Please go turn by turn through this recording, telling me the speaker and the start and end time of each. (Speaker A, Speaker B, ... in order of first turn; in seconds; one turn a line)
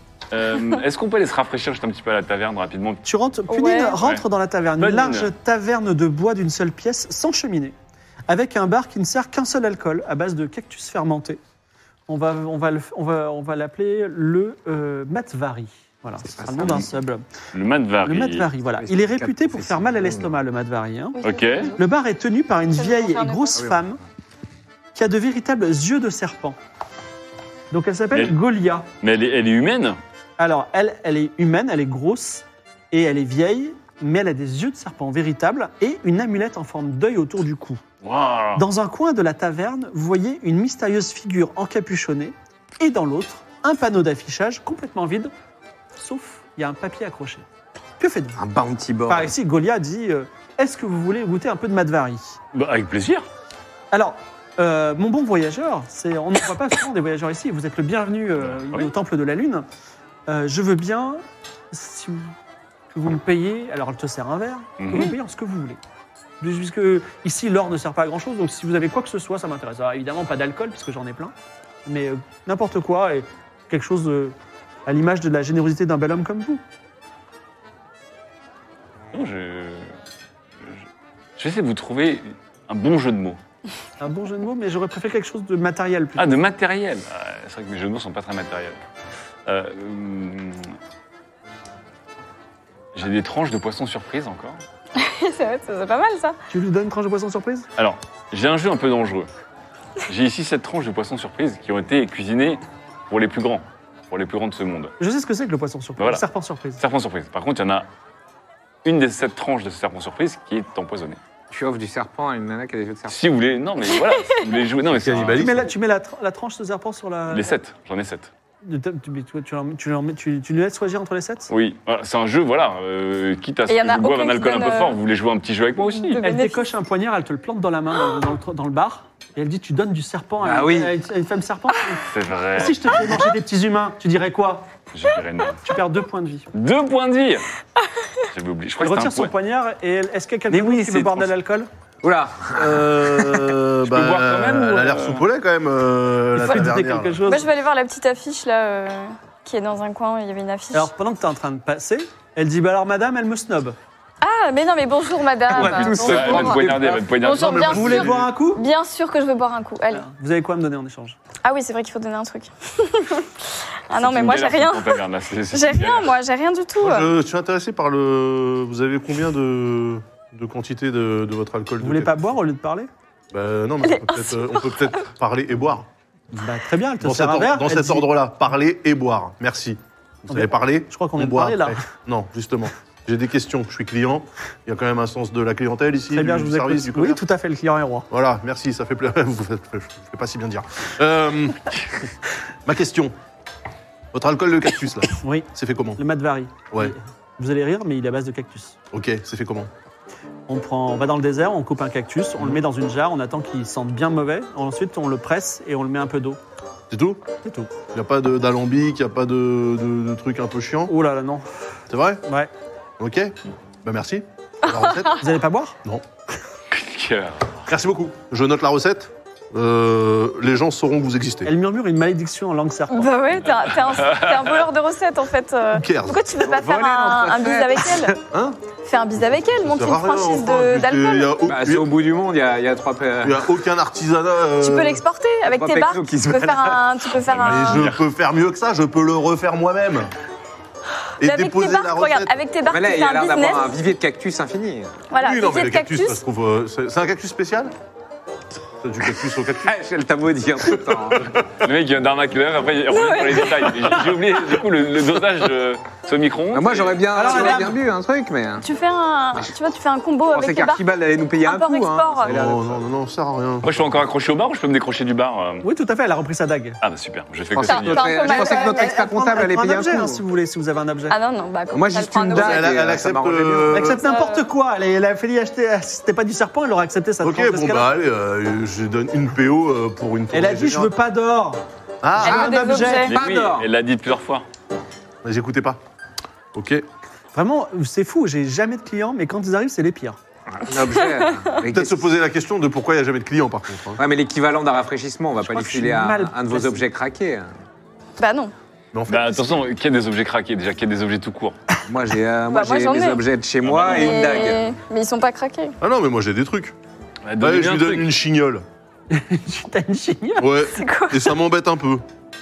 Speaker A: 0.3-3.0
Speaker B: 3.0-7.7
Speaker C: 3.5-4.0
Speaker A: 4.8-5.3
Speaker B: 8.3-11.4
Speaker B: 12.1-17.2
Speaker D: 16.2-16.9
Speaker A: 17.5-18.5
Speaker B: 18.0-21.2
Speaker D: 18.7-20.3
Speaker C: 21.2-21.8
Speaker A: 21.2-21.7
Speaker B: 21.8-24.0
Speaker C: 22.8-23.7
Speaker B: 24.9-26.6
Speaker B: 27.7-28.9
Speaker A: 29.0-30.0
Speaker B: 30.4-37.8
Speaker A: 38.0-38.6
Speaker B: 38.5-45.3
Speaker B: 46.0-47.4
Speaker B: 48.0-48.4
Speaker D: 48.4-49.3
Speaker B: 49.1-52.4
Speaker A: 52.5-53.2
Speaker B: 53.9-59.6
Speaker A: 58.4-58.9
Speaker B: 60.3-62.3
Speaker B: 62.9-65.8
Speaker A: 64.8-65.2
Speaker B: 66.4-71.3
Speaker B: 71.8-74.3
Speaker B: 74.8-76.6
Speaker A: 79.1-79.9
Speaker A: 81.4-83.4
Speaker B: 84.0-86.3
Speaker A: 86.2-88.8
Speaker A: 89.5-90.7
Speaker A: 92.9-94.6
Speaker C: 95.0-96.4
Speaker B: 96.5-97.7
Speaker A: 97.8-99.3
Speaker A: 100.0-104.9
Speaker B: 105.0-106.8
Speaker A: 106.0-106.2
Speaker A: 106.8-107.9
Speaker A: 108.8-111.2
Speaker D: 111.5-113.2
Speaker A: 113.1-115.6
Speaker E: 114.9-115.7
Speaker B: 115.3-117.5
Speaker A: 117.3-118.3
Speaker B: 118.6-121.5
Speaker A: 121.5-126.2
Speaker C: 123.7-125.0
Speaker C: 125.8-126.6
Speaker B: 126.2-134.7
Speaker D: 130.4-130.9
Speaker A: 132.1-133.2
Speaker A: 134.9-135.6
Speaker B: 135.6-136.5
Speaker A: 136.5-137.5
Speaker A: 138.3-139.3
Speaker B: 138.8-141.7
Speaker A: 140.5-141.3
Speaker D: 142.0-143.5
Speaker E: 142.5-147.2
Speaker A: 143.8-145.2
Speaker B: 146.3-147.5
Speaker C: 147.2-150.9
Speaker B: 150.7-153.8
Speaker C: 154.2-160.0
Speaker D: 155.5-157.1
Speaker A: 155.5-158.0
Speaker E: 157.3-158.3
Speaker B: 157.7-158.6
Speaker B: 159.9-161.2
Speaker C: 161.4-167.1
Speaker A: 163.9-166.2
Speaker E: 166.8-172.3
Speaker B: 171.8-172.9
Speaker E: 173.3-175.9
Speaker C: 173.8-174.9
Speaker B: 176.3-178.1
Speaker E: 177.0-187.2
Speaker B: 180.2-181.8
Speaker B: 186.1-188.1
Speaker E: 188.1-191.8
Speaker E: 192.7-193.1
Speaker E: 194.1-196.0
Speaker B: 195.2-198.8
Speaker E: 198.9-199.7
Speaker B: 200.5-206.4
Speaker E: 206.9-207.2
Speaker B: 207.4-207.7
Speaker E: 207.9-210.9
Speaker B: 210.9-211.5
Speaker E: 211.9-212.2
Speaker B: 212.2-212.5
Speaker E: 213.0-215.2
Speaker B: 215.2-215.8
Speaker A: 216.7-217.6
Speaker E: 217.7-221.5
Speaker B: 221.4-223.1
Speaker C: 222.9-228.2
Speaker A: 223.5-224.7
Speaker E: 225.7-226.2
Speaker D: 226.4-228.1
Speaker E: 228.3-228.6
Speaker C: 228.8-231.4
Speaker E: 229.1-231.9
Speaker D: 231.4-233.5
Speaker E: 233.2-235.0
Speaker C: 234.6-237.9
Speaker D: 235.4-236.9
Speaker A: 237.2-238.1
Speaker E: 237.4-240.1
Speaker E: 241.2-242.4
Speaker C: 241.2-243.8
Speaker D: 242.7-244.9
Speaker C: 245.1-246.2
Speaker E: 245.2-247.7
Speaker E: 248.8-249.7
Speaker D: 249.6-251.3
Speaker A: 251.6-257.5
Speaker C: 252.9-253.9
Speaker D: 256.5-258.6
Speaker B: 257.1-257.8
Speaker C: 258.6-260.9
Speaker D: 260.3-262.8
Speaker C: 261.4-262.4
Speaker E: 262.2-264.0
Speaker A: 263.6-265.6
Speaker B: 265.6-266.8
Speaker A: 266.8-268.3
Speaker D: 267.6-270.2
Speaker C: 267.6-269.0
Speaker B: 268.2-271.1
Speaker C: 271.1-272.9
Speaker D: 271.7-273.9
Speaker E: 272.3-274.0
Speaker B: 273.7-277.9
Speaker C: 273.9-274.5
Speaker E: 277.2-280.9
Speaker B: 280.3-281.6
Speaker E: 282.0-282.6
Speaker B: 282.2-283.1
Speaker C: 282.2-283.2
Speaker D: 282.3-283.7
Speaker A: 283.1-284.4
Speaker E: 285.2-285.8
Speaker E: 286.5-286.9
Speaker B: 287.3-290.2
Speaker D: 290.5-292.0
Speaker E: 291.6-294.0
Speaker D: 294.0-297.5
Speaker B: 295.4-296.8
Speaker C: 298.2-298.5
Speaker E: 298.9-299.6
Speaker A: 299.1-301.6
Speaker D: 301.9-304.7
Speaker C: 302.5-303.2
Speaker A: 303.6-304.3
Speaker C: 303.8-305.8
Speaker E: 305.8-306.7
Speaker A: 307.2-308.1
Speaker E: 307.4-308.6
Speaker B: 309.1-310.7
Speaker E: 310.4-312.0
Speaker C: 310.7-311.4